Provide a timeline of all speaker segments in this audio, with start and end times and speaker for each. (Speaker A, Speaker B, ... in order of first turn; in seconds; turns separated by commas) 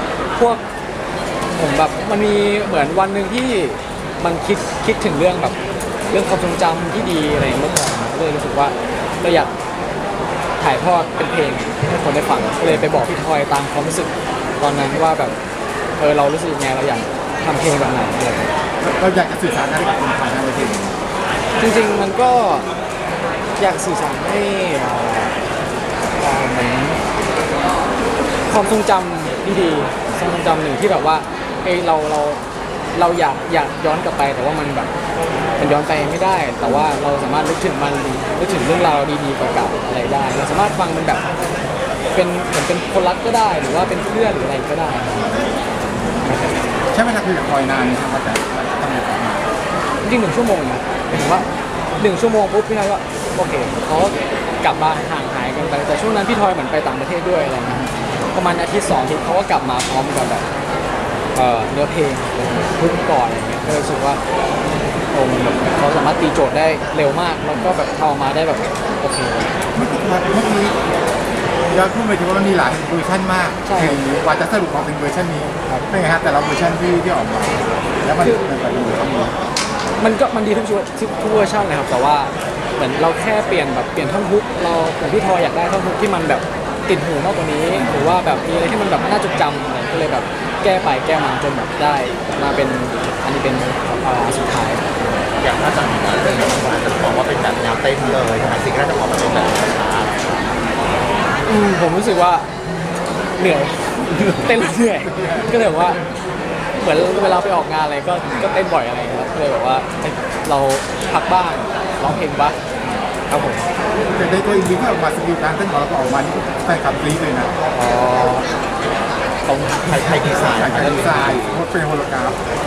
Speaker A: 0.3-0.6, Speaker A: 1.6-5.5, Speaker A: 6.1-9.5, Speaker A: 10.6-15.3, Speaker A: 16.0-18.5, Speaker B: 18.8-21.0, Speaker A: 21.6-22.7, Speaker A: 23.6-25.4, Speaker A: 26.2-27.0, Speaker A: 28.5-32.4, Speaker A: 32.9-34.9, Speaker A: 35.6-41.2, Speaker A: 42.1-45.3, Speaker A: 46.2-46.6, Speaker B: 46.9-49.5, Speaker A: 50.0-51.5, Speaker A: 52.0-60.5, Speaker A: 61.4-64.2, Speaker A: 65.1-69.5, Speaker B: 69.7-70.8, Speaker B: 71.7-79.3, Speaker A: 73.7-74.0, Speaker A: 78.2-78.5, Speaker A: 80.0-94.8, Speaker B: 87.8-88.1, Speaker C: 95.4-100.3, Speaker A: 101.5-102.5, Speaker A: 103.4-106.0, Speaker B: 105.0-105.5, Speaker A: 106.8-112.6, Speaker A: 113.3-113.6, Speaker B: 114.1-117.5, Speaker A: 117.7-118.5, Speaker A: 119.5-119.9, Speaker C: 119.8-121.6, Speaker B: 120.5-122.4